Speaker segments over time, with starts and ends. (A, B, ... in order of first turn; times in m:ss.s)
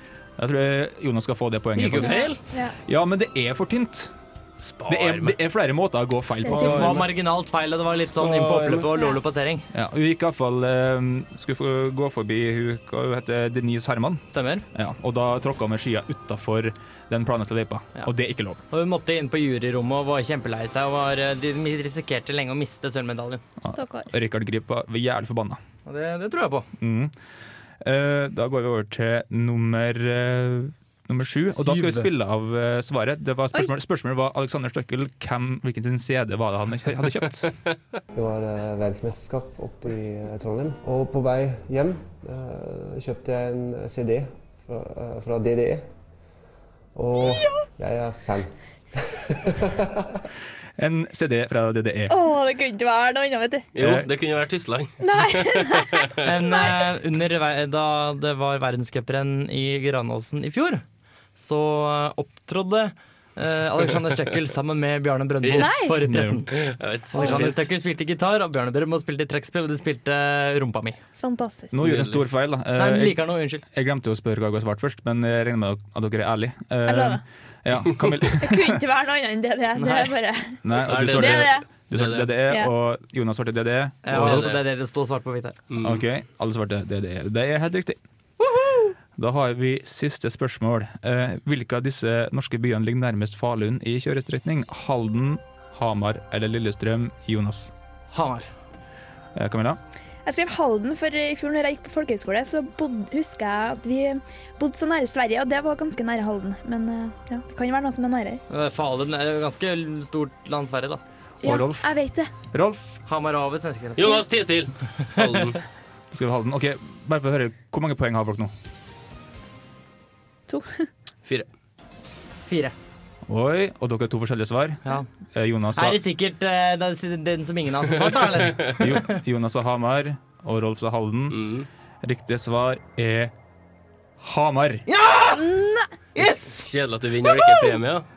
0:00.4-0:04.1 A
0:01.7-0:02.4 B
0:02.0-0:02.8 C
0:04.6-0:05.4 D
0:04.9-0:07.0 A
0:06.4-0:07.0 C
0:06.4-0:09.7 B
0:09.7-0:18.6 A
0:14.3-0:14.6 B
0:18.7-0:23.4 B
0:23.6-0:25.6 A
0:23.7-0:24.1 C
0:25.8-0:26.7 B
0:26.8-0:27.1 A
0:27.8-0:37.5 A
0:31.6-0:32.1 B
0:38.1-0:45.8 E
0:46.9-0:48.5 E
0:47.4-0:47.6 C
0:49.1-0:50.1 E
0:50.8-0:52.2 A
0:52.1-0:53.6 C
0:53.7-0:56.2 D
0:53.8-0:54.1 A
0:55.0-0:56.1 C
0:56.2-1:00.8 B
1:01.4-1:06.6 B
1:05.4-1:05.8 D
1:05.6-1:06.0 C
1:06.0-1:06.4 A
1:06.5-1:07.6 D
1:07.1-1:11.0 B
1:07.2-1:07.4 C
1:11.2-1:11.8 C
1:11.7-1:18.8 A
1:11.8-1:12.2 D
1:12.8-1:13.6 B
1:16.8-1:17.2 C
1:18.4-1:21.6 C
1:19.8-1:20.1 B
1:20.6-1:24.5 A
1:20.9-1:22.3 D
1:24.0-1:25.6 B
1:24.1-1:24.6 D
1:25.7-1:26.0 D
1:25.8-1:28.0 A
1:28.4-1:28.9 B
1:29.2-1:37.7 A
1:38.1-1:38.5 B
1:39.3-1:39.8 A
1:40.2-1:48.4 C
1:48.5-1:51.0 B
1:51.4-1:51.9 A
1:51.4-1:52.3 C
1:52.5-1:53.0 A
1:53.0-1:54.1 B
1:54.0-1:55.6 D
1:56.1-1:58.5 A
2:00.5-2:00.9 C
2:02.5-2:02.7 B
2:03.3-2:06.0 A
2:05.7-2:08.9 B
2:08.8-2:11.4 A
2:11.3-2:11.7 D
2:12.0-2:13.3 A
2:14.2-2:14.8 A
2:14.9-2:15.6 B
2:15.4-2:15.9 C
2:16.1-2:16.7 B
2:16.6-2:18.0 D
2:17.2-2:17.7 B